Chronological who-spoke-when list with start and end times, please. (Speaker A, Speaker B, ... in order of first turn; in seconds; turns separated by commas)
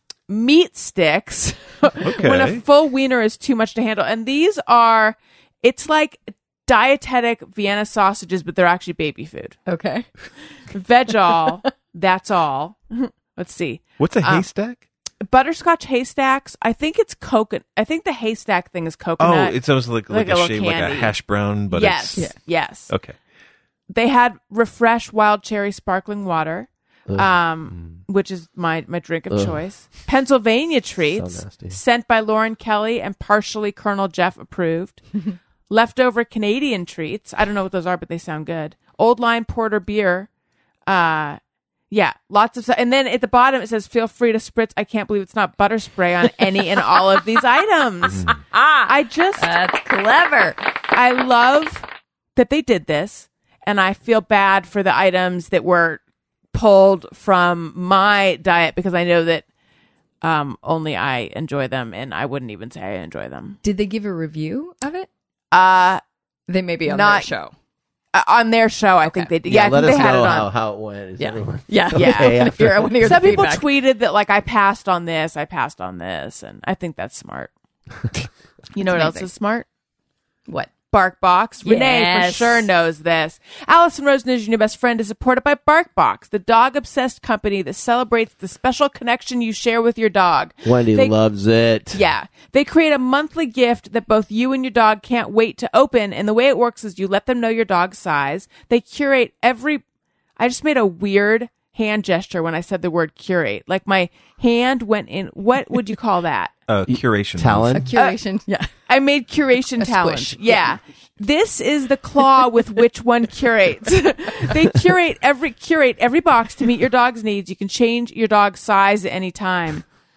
Speaker A: 0.3-9.6, Speaker B: 2.0-2.6, Speaker C: 9.7-10.1, Speaker A: 10.7-14.4, Speaker B: 14.0-14.8, Speaker A: 15.2-21.1, Speaker B: 19.2-22.3, Speaker A: 21.7-22.9, Speaker B: 22.9-23.1, Speaker A: 23.9-35.0, Speaker D: 29.3-29.6, Speaker D: 31.1-31.8, Speaker A: 35.7-40.3, Speaker A: 40.9-41.4, Speaker A: 41.9-48.3, Speaker B: 48.1-48.3, Speaker C: 48.5-50.6, Speaker A: 48.9-49.5, Speaker A: 50.9-56.0, Speaker A: 56.5-59.4, Speaker A: 60.2-63.6, Speaker C: 63.6-65.1, Speaker A: 65.5-66.0, Speaker C: 66.5-67.5, Speaker A: 66.8-67.3, Speaker A: 68.1-70.5, Speaker C: 69.0-69.3, Speaker D: 69.5-73.1, Speaker C: 71.2-73.7, Speaker A: 71.9-72.4, Speaker A: 73.0-77.5, Speaker A: 78.7-79.7, Speaker C: 78.8-79.3, Speaker A: 80.9-91.2, Speaker C: 81.6-82.7, Speaker D: 90.6-92.0, Speaker A: 91.9-99.8, Speaker A: 100.4-106.5, Speaker B: 106.7-107.8, Speaker D: 106.9-107.9, Speaker C: 107.7-108.7, Speaker A: 108.9-119.8, Speaker C: 109.8-110.7